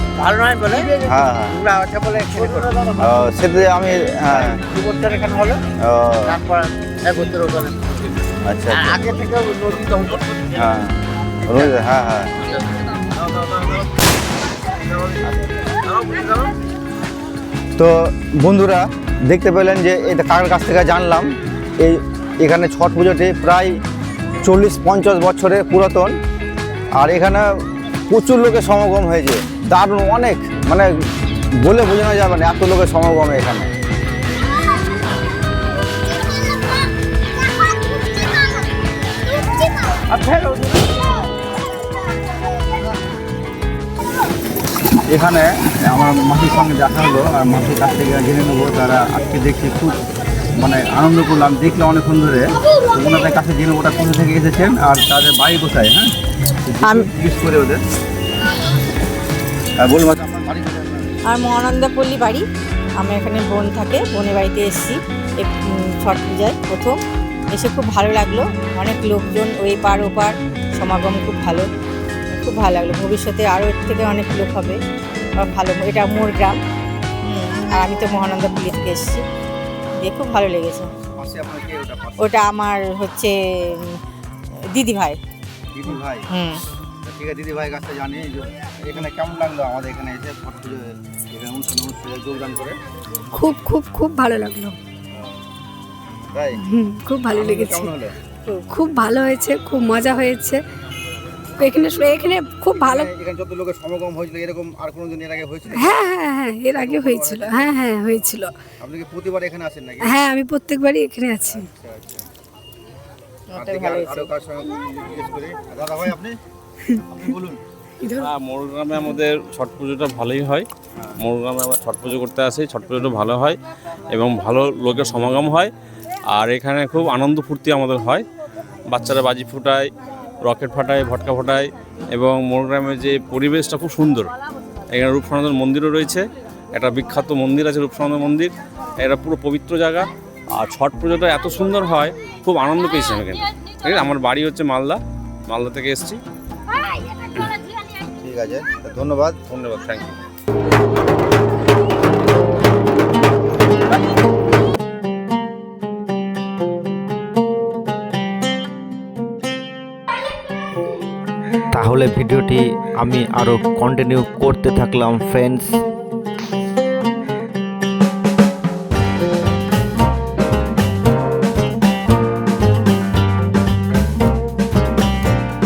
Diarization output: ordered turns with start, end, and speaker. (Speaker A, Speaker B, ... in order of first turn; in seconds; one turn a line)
Speaker A: 0.2-0.9
Speaker B: 1.0-1.6
Speaker A: 1.5-2.8
Speaker B: 3.0-4.6
Speaker A: 4.5-5.6
Speaker B: 5.8-6.4
Speaker A: 6.3-7.8
Speaker B: 8.4-9.0
Speaker A: 8.8-10.4
Speaker B: 10.5-10.9
Speaker B: 11.5-12.4
Speaker A: 16.0-16.5
Speaker B: 17.8-23.8
Speaker B: 24.4-26.2
Speaker B: 26.9-33.7
Speaker B: 40.1-40.7
Speaker B: 45.1-50.0
Speaker B: 50.6-57.8
Speaker B: 59.8-61.1
Speaker C: 61.3-67.0
Speaker C: 67.5-71.7
Speaker C: 72.3-74.8
Speaker C: 75.4-76.6
Speaker C: 77.2-79.2
Speaker C: 80.0-80.9
Speaker B: 81.1-82.3
Speaker C: 82.2-84.0
Speaker C: 84.7-85.2
Speaker B: 85.7-86.3
Speaker C: 86.3-86.6
Speaker B: 87.0-92.8
Speaker D: 93.3-94.8
Speaker B: 96.3-96.6
Speaker D: 96.6-97.9
Speaker B: 97.3-98.1
Speaker D: 98.7-100.6
Speaker D: 101.5-103.1
Speaker B: 102.8-106.0
Speaker D: 105.7-108.5
Speaker B: 106.7-107.6
Speaker B: 108.8-110.2
Speaker D: 110.0-111.7
Speaker B: 111.5-112.2
Speaker C: 113.5-114.3
Speaker B: 113.5-116.4
Speaker B: 117.0-117.6
Speaker D: 118.0-118.3
Speaker E: 118.1-120.7
Speaker E: 121.2-123.6
Speaker E: 124.1-125.7
Speaker E: 126.3-128.2
Speaker E: 128.9-129.9
Speaker E: 130.4-134.3
Speaker E: 134.9-146.2
Speaker B: 148.2-149.6
Speaker E: 149.5-150.1
Speaker F: 161.7-165.7